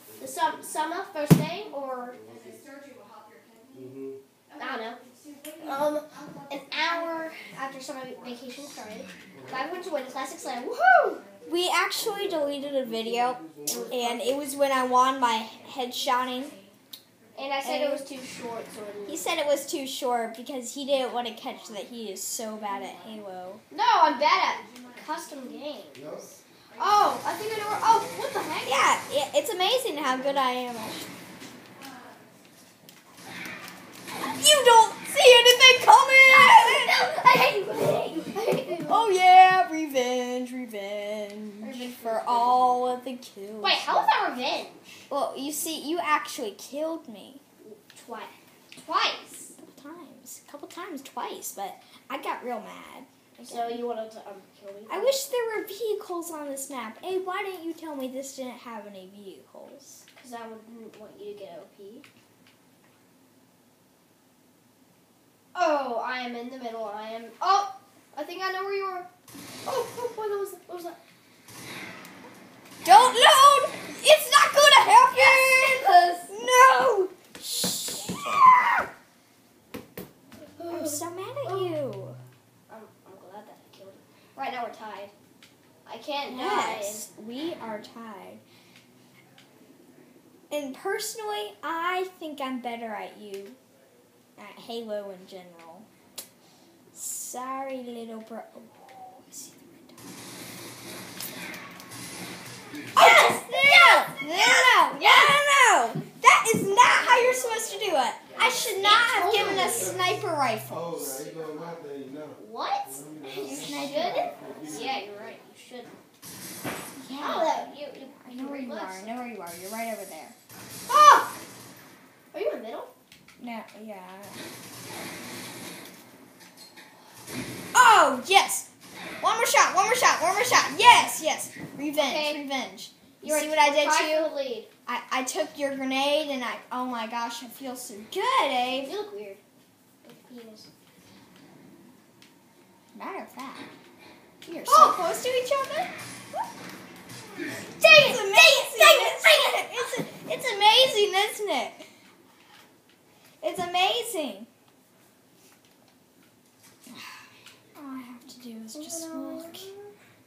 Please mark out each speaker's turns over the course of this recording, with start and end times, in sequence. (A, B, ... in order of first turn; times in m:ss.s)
0:00.2-0:02.2 A
0:02.2-0:02.7 B
0:03.8-0:04.2 B
0:04.6-0:05.0 A
0:05.6-0:11.2 A
0:11.5-0:16.6 C
0:12.2-0:13.9 B
0:13.6-0:14.4 A
0:17.4-0:19.3 A
0:17.6-0:18.0 C
0:19.1-0:23.6 C
0:23.7-0:26.0 A
0:26.0-0:26.4 B
0:26.8-0:28.8 A
0:28.6-0:31.1 C
0:34.2-0:37.0 C
0:36.3-0:39.0 A
0:38.9-0:44.1 C
0:41.6-0:42.7 A
0:43.6-0:45.0 A
0:45.1-0:47.4 C
0:47.6-0:49.5 A
0:49.6-0:53.8 C
0:53.5-0:55.2 A
0:54.9-1:00.0 C
1:00.2-1:02.0 A
1:05.5-1:09.1 A
1:09.6-1:11.0 A
1:12.8-1:18.9 C
1:15.1-1:16.3 A
1:20.6-1:21.7 A
1:20.7-1:22.2 C
1:22.7-1:25.1 A
1:25.8-1:27.1 A
1:26.3-1:28.4 C
1:30.5-1:33.6 C
1:34.4-1:35.9 C
1:36.9-1:40.1 C
1:43.0-1:51.3 C
1:43.0-1:45.4 A
1:46.8-1:47.8 A
1:48.3-1:50.0 A
1:49.3-1:50.1 B
1:50.7-1:55.2 B
1:52.4-1:56.0 A
1:53.3-1:54.6 C
1:57.0-2:00.4 C
1:57.2-1:59.3 A
2:00.9-2:01.3 A
2:02.3-2:02.9 A
2:03.4-2:04.4 C
2:07.7-2:08.7 C
2:09.2-2:14.3 C
2:12.0-2:12.4 A
2:13.2-2:14.7 A
2:14.9-2:18.9 C
2:18.8-2:19.4 A
2:20.0-2:20.7 A
2:22.9-2:23.7 C
2:24.5-2:25.1 C
2:24.7-2:25.9 A
2:27.7-2:29.9 A
2:27.8-2:31.9 C
2:33.4-2:34.5 C
2:37.8-2:39.7 C
2:38.7-2:39.9 A